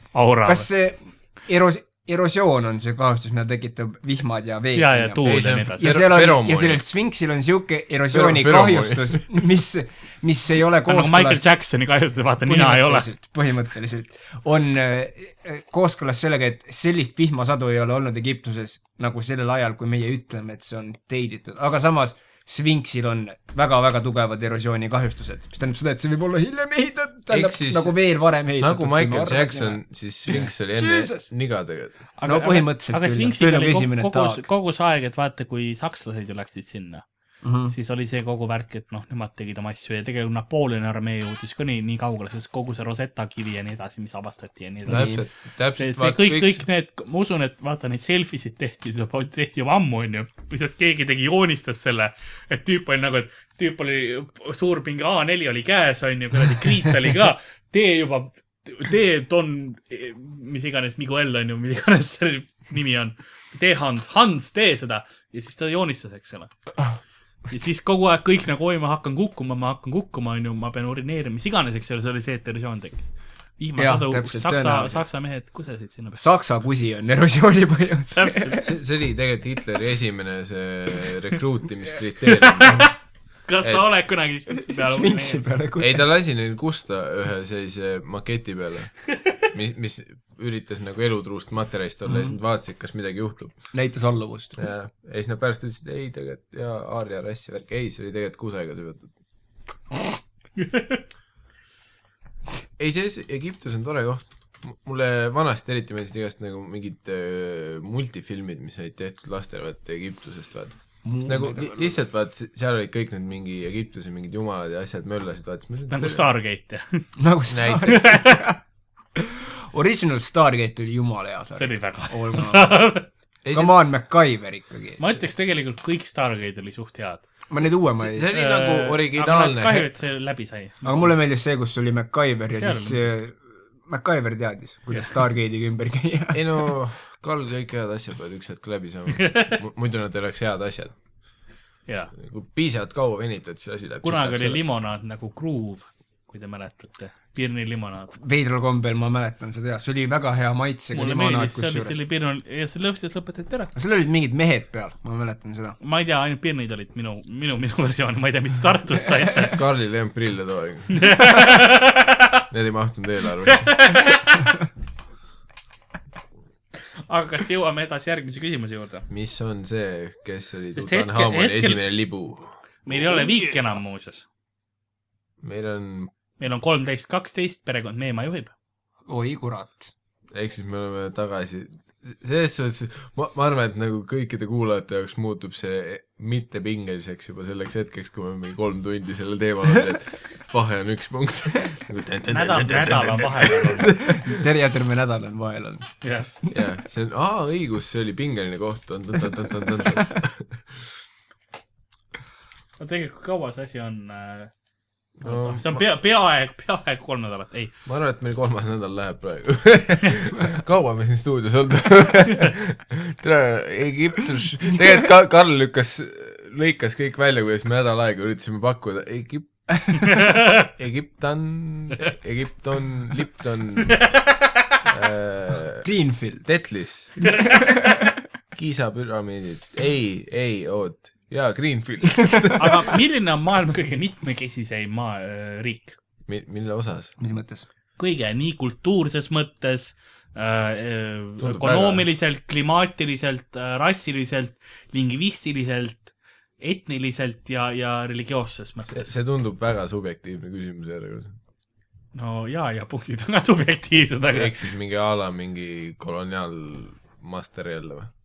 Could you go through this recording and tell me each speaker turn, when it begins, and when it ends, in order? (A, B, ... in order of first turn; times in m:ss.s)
0:00.1-0:00.7 A
0:00.4-0:11.4 B
0:04.7-0:05.9 A
0:05.2-0:06.8 C
0:08.1-0:09.3 C
0:10.8-0:13.1 A
0:12.5-0:31.3 B
0:27.3-0:28.0 C
0:28.6-0:32.0 C
0:32.2-0:37.0 A
0:32.2-0:34.4 B
0:37.4-0:37.8 B
0:37.7-0:45.2 A
0:44.9-0:45.2 B
0:44.9-0:46.6 C
0:45.7-1:06.5 A
1:07.5-1:16.2 A
1:13.8-1:15.0 B
1:16.2-1:18.6 B
1:18.1-1:18.7 A
1:18.6-1:22.9 C
1:23.5-1:25.4 A
1:24.7-1:26.0 B
1:25.8-1:33.7 C
1:33.7-1:34.6 B
1:34.6-1:39.1 C
1:40.6-1:41.0 A
1:42.8-1:56.3 C
1:51.0-1:52.0 B
1:55.9-1:57.1 A
1:57.2-1:58.6 B
1:57.5-1:58.2 C
1:57.9-1:58.5 A
1:59.2-2:02.8 B
2:01.6-2:03.1 A
2:03.4-2:03.8 C
2:03.5-2:05.2 B
2:05.0-2:07.2 A
2:07.5-2:08.3 B
2:08.0-2:09.9 C
2:08.3-2:11.1 A
2:10.8-2:16.4 B
2:12.5-2:13.1 A
2:14.9-2:15.2 A
2:16.3-2:21.0 C
2:19.2-2:19.6 A
2:21.9-2:22.1 A
2:22.2-2:24.6 C
2:24.0-2:28.2 A
2:28.2-2:32.0 B
2:30.9-2:33.7 A
2:33.8-2:35.8 B
2:35.8-2:39.6 A
2:39.5-2:41.3 C
2:40.9-2:42.2 A
2:42.5-2:43.9 C
2:43.5-2:44.5 A
2:47.0-2:49.1 A
2:49.1-2:52.6 C
2:50.8-2:51.8 A
2:52.9-2:54.3 A
2:55.4-2:56.1 C
2:56.4-2:58.5 A
2:59.1-2:59.9 B
3:00.3-3:14.2 C
3:12.3-3:14.0 A
3:13.9-3:15.9 B
3:16.0-3:16.3 A
3:16.5-3:20.9 C
3:22.8-3:24.5 A
3:25.2-3:25.8 C
3:25.2-3:27.8 A
3:27.8-3:44.1 C
3:44.0-3:44.3 A
3:44.9-3:45.9 C
3:45.8-3:46.5 B
3:46.4-3:47.4 C
3:47.3-3:47.7 A
3:47.4-3:48.0 B
3:48.5-3:53.0 C
3:52.6-3:56.0 A
3:56.3-3:57.1 C
3:57.2-3:57.7 B
3:58.0-4:09.1 A
4:01.4-4:02.0 C
4:08.9-4:11.4 C
4:12.2-4:14.5 A
4:14.3-4:18.1 C